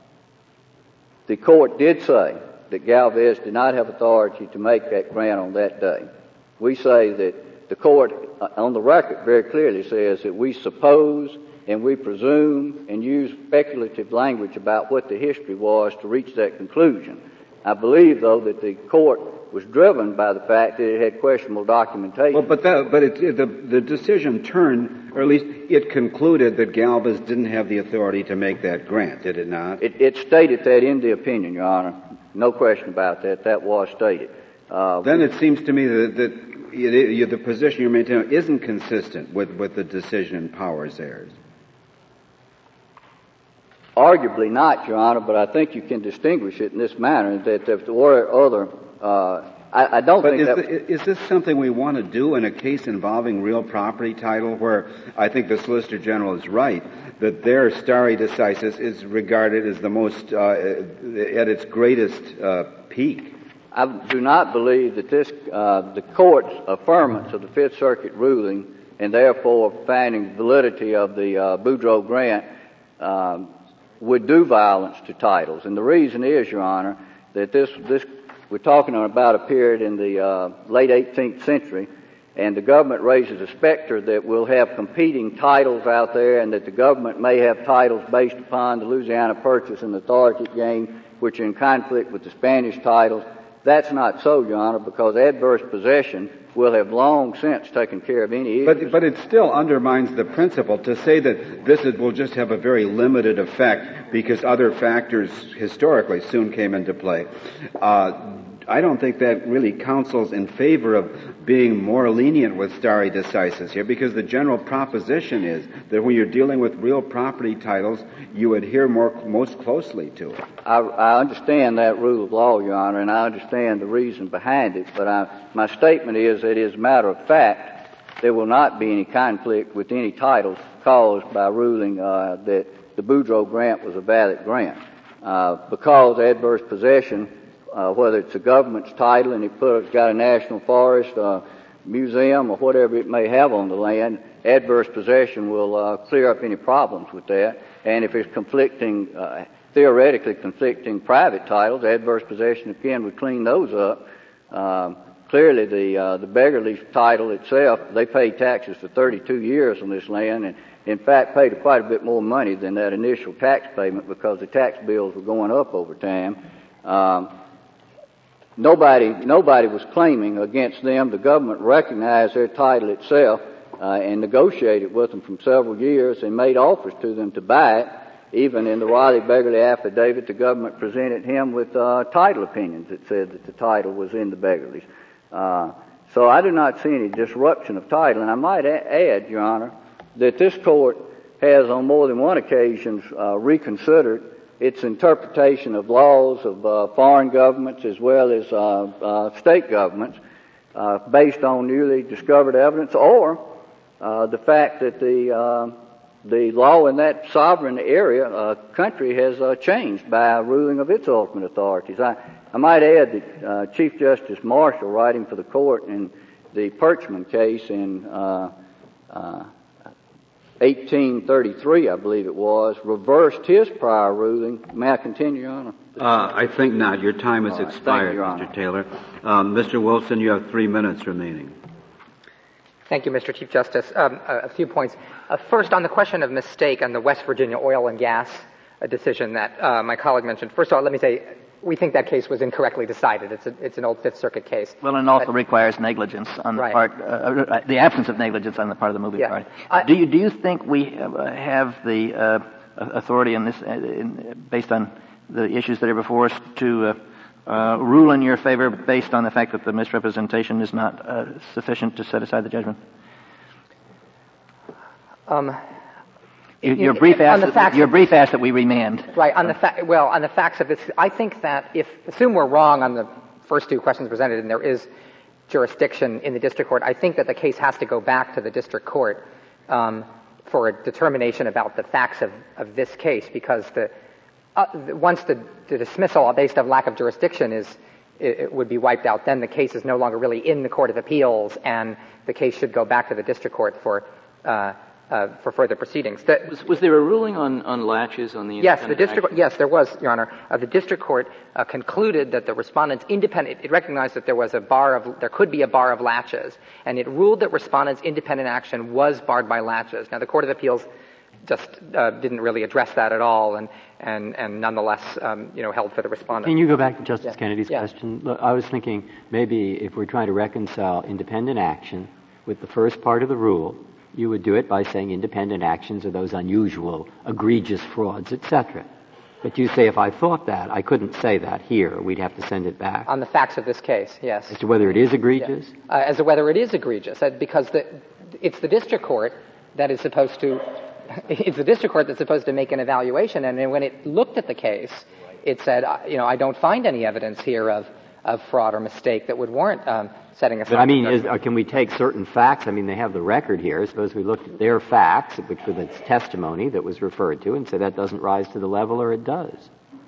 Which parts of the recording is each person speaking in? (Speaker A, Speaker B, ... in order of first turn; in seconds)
Speaker A: 1.3-22.4, 29.8-35.3, 44.0-50.6, 63.7-72.5, 73.0-98.9, 120.6-167.3, 168.6-200.2, 200.7-218.5, 219.1-219.5, 220.6-225.9, 227.5-228.5
Speaker B: 22.3-29.8, 35.0-41.3, 50.2-63.3, 98.7-120.4, 226.0-231.6
Speaker C: 232.9-245.3, 249.2-249.8, 265.3-265.6, 266.7-268.1, 269.1-274.9, 275.5-283.9, 284.6-296.5, 298.6-310.9, 311.5-316.6, 317.2-317.8, 333.1-334.6, 335.4-351.3
Speaker D: 244.8-262.8, 266.6-269.1
Speaker E: 296.5-299.4
Speaker F: 316.4-328.9, 329.4-333.1, 334.5-335.7, 350.7-359.7